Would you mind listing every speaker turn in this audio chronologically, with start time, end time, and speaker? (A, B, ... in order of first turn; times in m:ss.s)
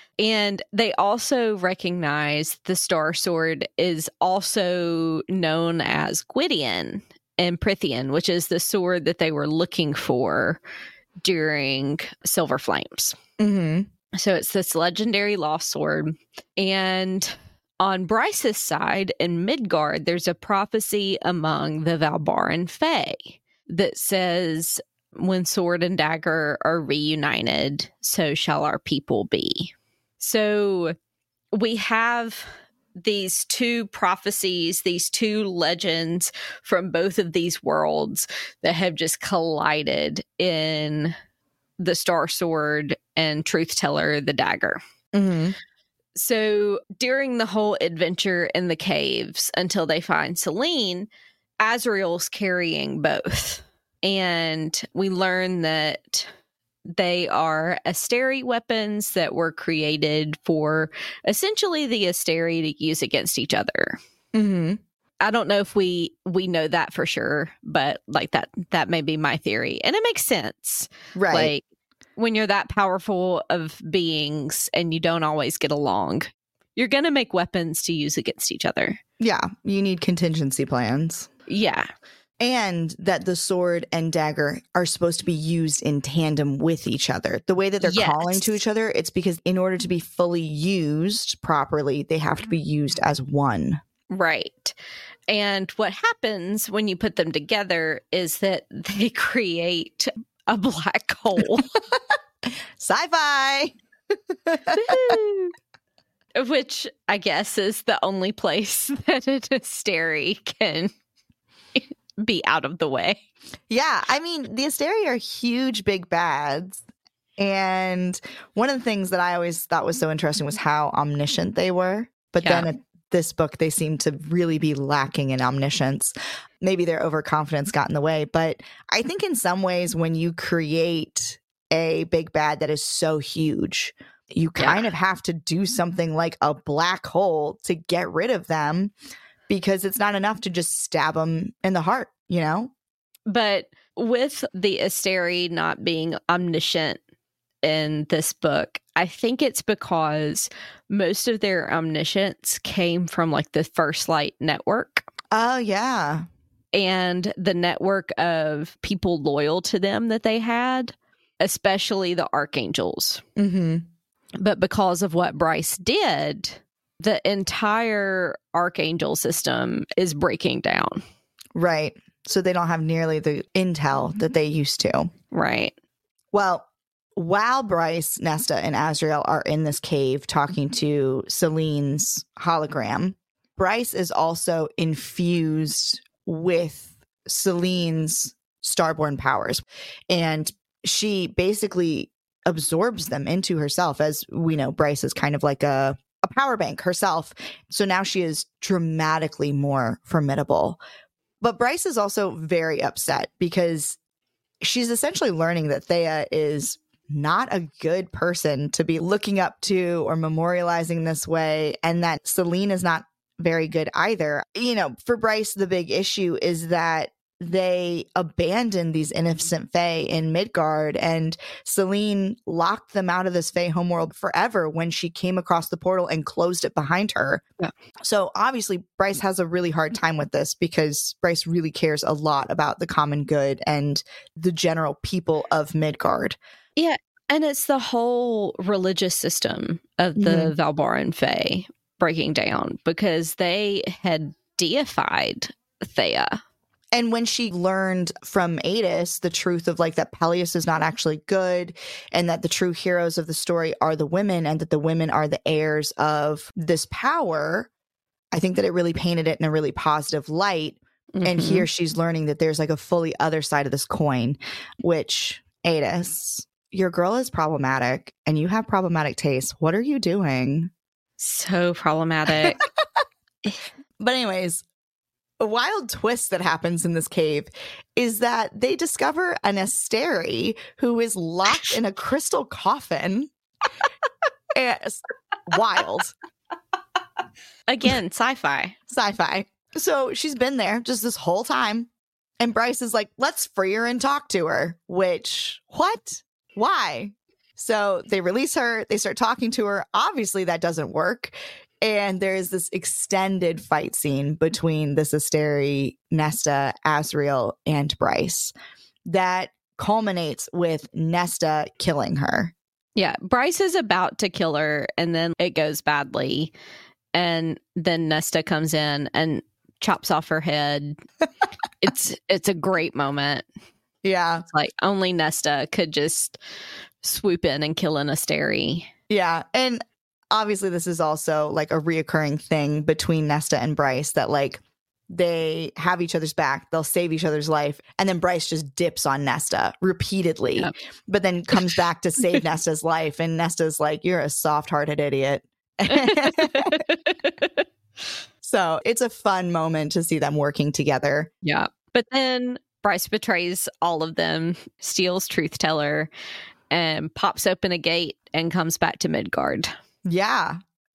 0:00.2-0:10.6 A
0:11.2-0:13.2 A
0:13.4-0:13.9 B
0:14.1-0:30.9 A
0:31.5-0:41.1 A
0:41.8-0:44.8 A
0:45.1-0:45.6 B
0:46.1-0:51.1 A
0:51.6-0:56.3 A
0:56.9-1:04.0 A
1:04.3-1:04.8 B
1:05.2-1:11.6 A
1:11.1-1:11.5 B
1:12.2-1:19.0 A
1:19.2-1:21.3 B
1:21.5-1:21.9 A
1:22.4-1:33.8 B
1:27.8-1:28.5 A
1:34.1-1:34.7 A
1:35.3-1:41.7 A
1:42.8-1:43.7 B
1:44.4-1:45.2 B
1:44.7-1:45.5 A
1:46.4-1:50.9 A
1:51.7-1:53.2 A
1:53.7-1:56.8 B
1:57.4-2:18.9 B
2:02.4-2:02.7 A
2:14.6-2:14.9 A
2:19.5-2:22.7 B
2:23.3-2:27.0 A
2:27.6-2:35.0 A
2:35.3-2:36.2 B
2:36.7-2:43.2 A
2:43.4-2:43.9 B
2:44.4-2:51.0 A
2:51.5-2:55.1 B
2:55.3-2:55.7 A
2:56.3-3:20.8 B
3:21.4-3:24.0 B
3:24.6-3:47.4 B
3:48.0-3:56.4 B
3:56.8-4:06.4 A
4:00.2-4:00.5 B
4:06.9-4:17.7 B
4:18.3-4:30.7 B
4:21.2-4:21.7 A
4:31.2-4:32.6 A
4:32.4-4:32.8 B
4:34.0-4:34.6 B
4:35.4-4:43.3 B
4:44.5-4:46.1 B
4:47.7-4:48.8 A
4:48.9-4:51.9 B
4:52.4-5:08.5 B
5:09.0-5:12.5 B
5:12.9-5:16.5 A
5:17.1-5:21.0 A
5:21.8-5:23.5 A
5:24.0-5:24.4 B
5:24.5-5:26.4 A
5:27.0-5:28.9 A
5:29.1-5:46.8 B
5:45.9-5:47.6 A
5:48.4-5:51.3 B
5:51.4-5:56.1 A
5:56.7-5:59.7 A
6:00.0-6:00.6 B